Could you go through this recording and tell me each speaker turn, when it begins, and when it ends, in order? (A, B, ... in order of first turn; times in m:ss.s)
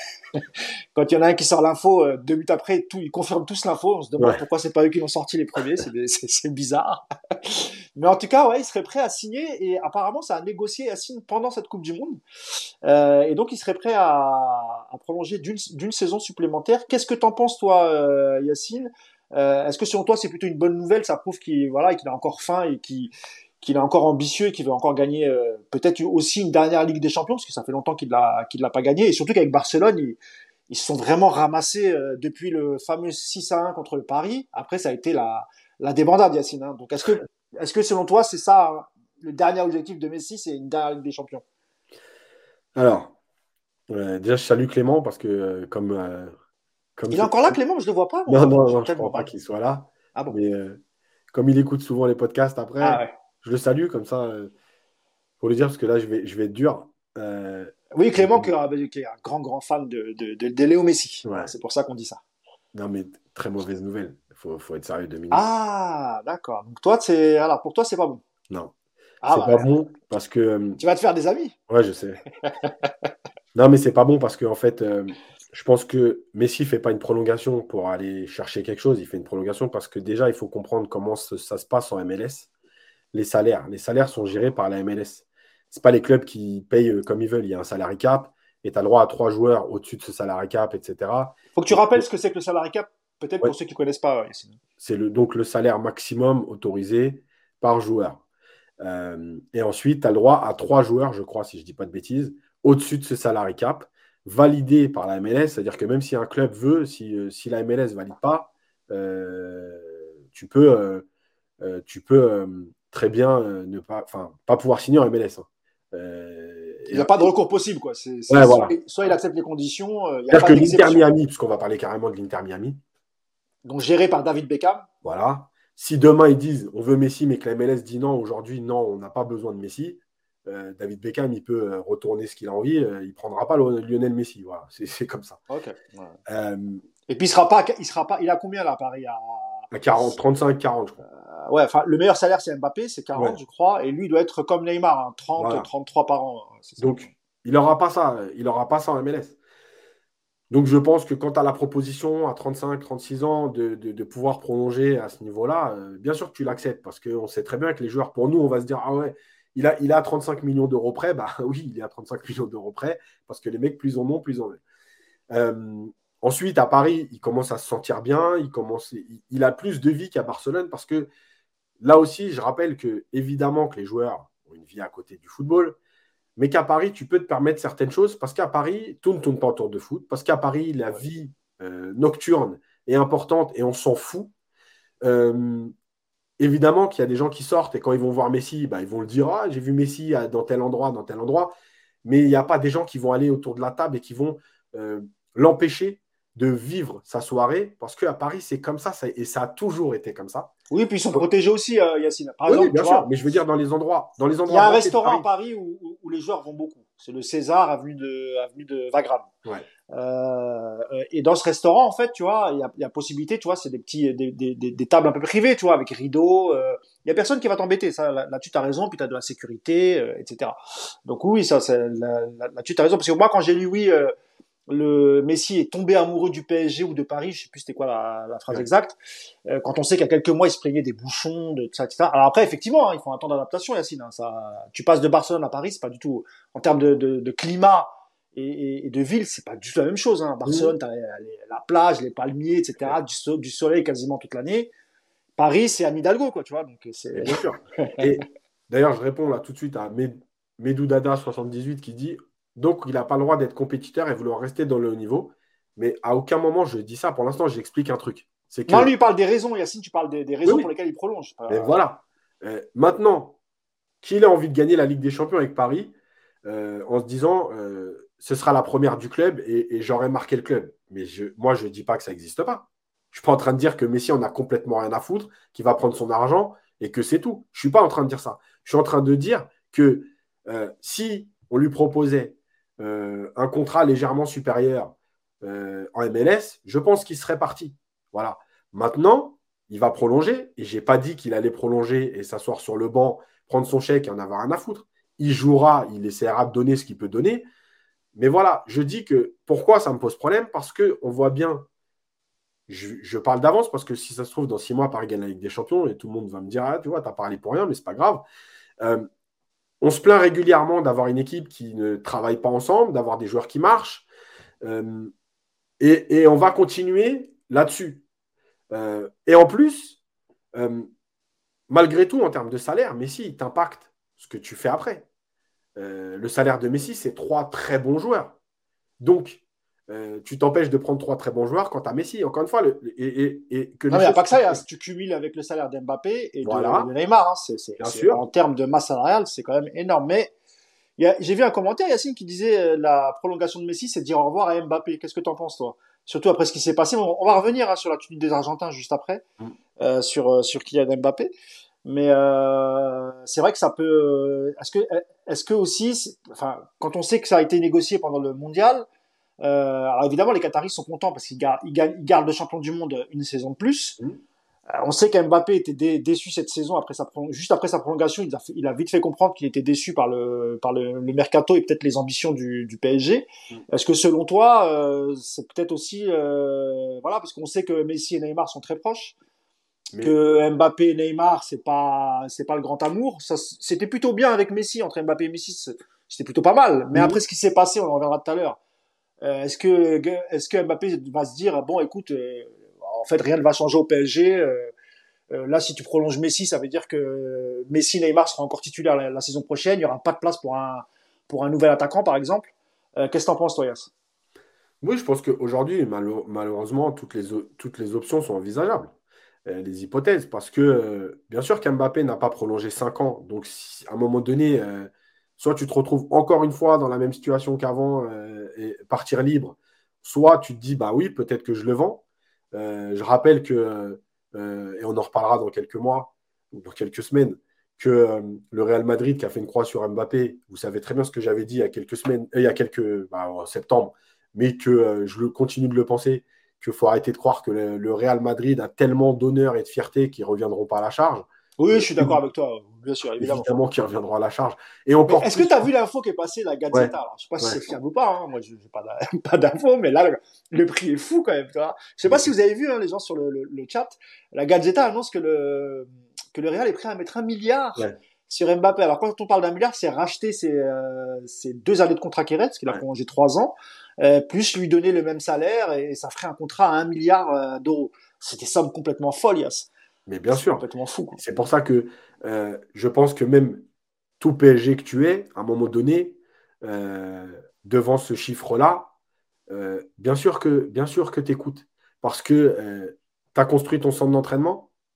0:00.4-0:12.2 A
0:12.8-0:30.2 A
0:30.7-0:41.4 A
0:42.8-0:43.1 B
0:43.9-0:46.3 B
0:47.0-0:47.5 B
0:47.1-0:49.3 A
0:48.3-0:50.8 B
0:51.3-0:54.5 B
0:52.8-0:53.1 A
0:55.4-0:58.5 B
0:57.9-1:02.2 A
1:01.2-1:01.5 B
1:02.7-1:05.4 B
1:05.3-1:08.2 A
1:09.2-1:09.7 A
1:09.3-1:10.8 B
1:10.8-1:11.6 A
1:11.7-1:12.2 B
1:12.4-1:12.9 A
1:13.5-1:22.5 B
1:23.1-1:32.0 B
1:31.6-1:34.6 A
1:34.8-1:38.2 B
1:38.8-1:51.1 B
1:51.6-1:57.3 B
1:56.9-2:01.1 A
1:58.3-1:58.8 B
2:00.3-2:02.8 B
2:03.6-2:04.9 A
2:05.0-2:15.4 B
2:15.5-2:16.2 A
2:16.3-2:16.8 B
2:17.1-2:20.1 A
2:19.7-2:21.0 B
2:21.0-2:27.1 A
2:25.4-2:25.7 B
2:26.8-2:29.4 B
2:30.5-2:44.6 B
2:45.3-2:51.1 B
2:51.8-2:55.8 B
2:56.4-3:04.3 B
3:05.0-3:05.7 B
3:06.4-3:20.5 B
3:20.7-3:23.1 A
3:22.5-3:25.2 B
3:24.5-3:29.3 A
3:29.9-3:44.1 A
3:44.7-4:04.7 A
4:00.4-4:00.7 B
4:05.4-4:08.2 A
4:07.2-4:18.9 B
4:18.7-4:21.8 A
4:21.5-4:23.4 B
4:24.0-4:25.9 B
4:26.4-4:57.5 B
4:58.2-5:01.7 B
5:02.7-5:08.2 B
5:08.8-5:09.1 B
5:09.8-5:14.1 B
5:14.6-5:15.1 B
5:15.8-5:18.0 B
5:18.7-5:20.0 B
5:20.5-5:20.9 B
5:21.7-5:25.1 B
5:25.8-5:28.4 B
5:29.0-5:34.6 B
5:33.9-5:40.3 A
5:36.4-5:36.9 B
5:37.8-5:38.2 B
5:41.0-5:49.2 A
5:49.8-5:51.3 A
5:51.8-5:58.8 A
5:59.4-6:04.0 A
6:04.7-6:19.2 A
6:20.0-6:28.6 A
6:26.9-6:27.2 B
6:29.2-6:34.7 A
6:35.3-6:43.9 A
6:44.8-6:48.9 B
6:49.5-7:22.2 B
7:21.6-7:23.5 A
7:23.2-7:25.7 B
7:25.1-7:49.7 A
7:26.7-7:27.6 B
7:32.1-7:32.3 B
7:50.1-7:50.6 B
7:50.3-7:51.2 A
7:51.2-7:53.6 B
7:54.2-7:58.9 B
7:59.5-8:04.7 B